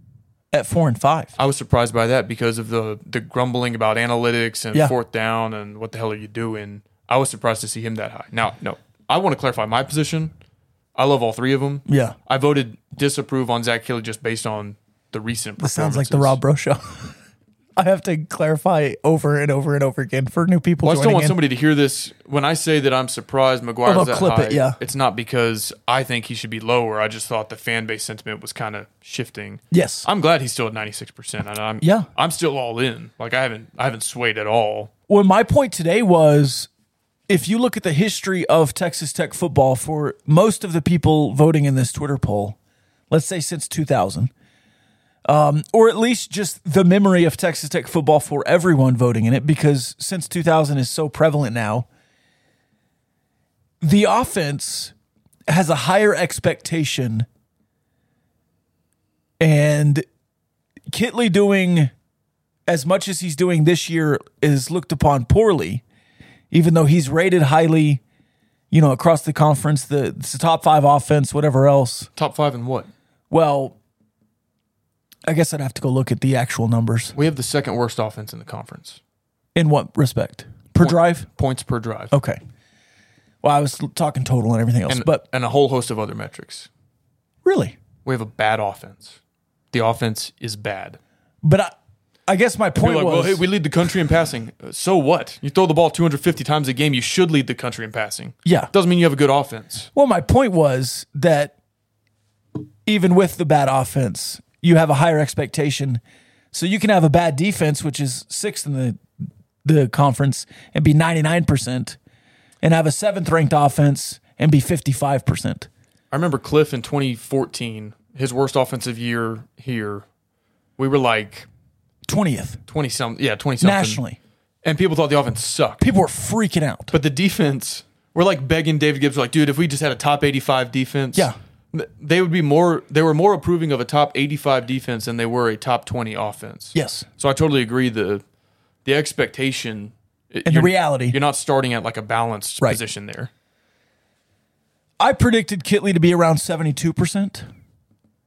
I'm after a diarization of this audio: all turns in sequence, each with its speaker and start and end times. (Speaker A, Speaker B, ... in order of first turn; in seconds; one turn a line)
Speaker A: 0.5-1.3
Speaker B: 1.4-10.3
Speaker B: 10.9-16.4
Speaker A: 11.9-12.2
Speaker A: 15.6-17.2
Speaker A: 17.8-21.4
Speaker B: 20.8-34.9
Speaker A: 23.9-24.8
Speaker A: 29.7-30.1
Speaker A: 31.8-32.1
Speaker A: 35.1-36.7
Speaker A: 37.3-42.6
Speaker A: 43.1-44.3
Speaker A: 45.3-51.9
Speaker A: 53.8-54.9
Speaker A: 55.5-57.3
Speaker A: 59.4-60.1
Speaker A: 60.9-61.9
Speaker A: 62.7-65.8
Speaker A: 66.5-68.0
Speaker A: 68.7-72.1
Speaker B: 72.2-72.9
Speaker A: 73.3-73.8
Speaker A: 75.2-77.2
Speaker B: 77.1-79.0
Speaker A: 79.5-81.3
Speaker B: 80.8-82.1
Speaker A: 82.1-82.4
Speaker A: 83.4-85.2
Speaker B: 84.9-86.7
Speaker A: 87.4-87.8
Speaker B: 88.0-89.2
Speaker B: 89.7-91.0
Speaker A: 91.4-91.7
Speaker A: 92.3-93.5
Speaker B: 92.8-99.9
Speaker A: 98.5-98.7
Speaker A: 99.9-101.5
Speaker A: 102.8-106.0
Speaker A: 106.5-109.0
Speaker A: 109.6-112.0
Speaker A: 112.6-115.7
Speaker B: 116.1-120.1
Speaker B: 120.8-121.5
Speaker A: 122.1-122.6
Speaker B: 122.7-124.0
Speaker A: 123.6-124.2
Speaker B: 124.6-125.9
Speaker A: 125.8-127.0
Speaker B: 126.9-138.2
Speaker A: 136.7-137.1
Speaker B: 138.8-143.3
Speaker A: 140.4-141.2
Speaker A: 145.0-147.5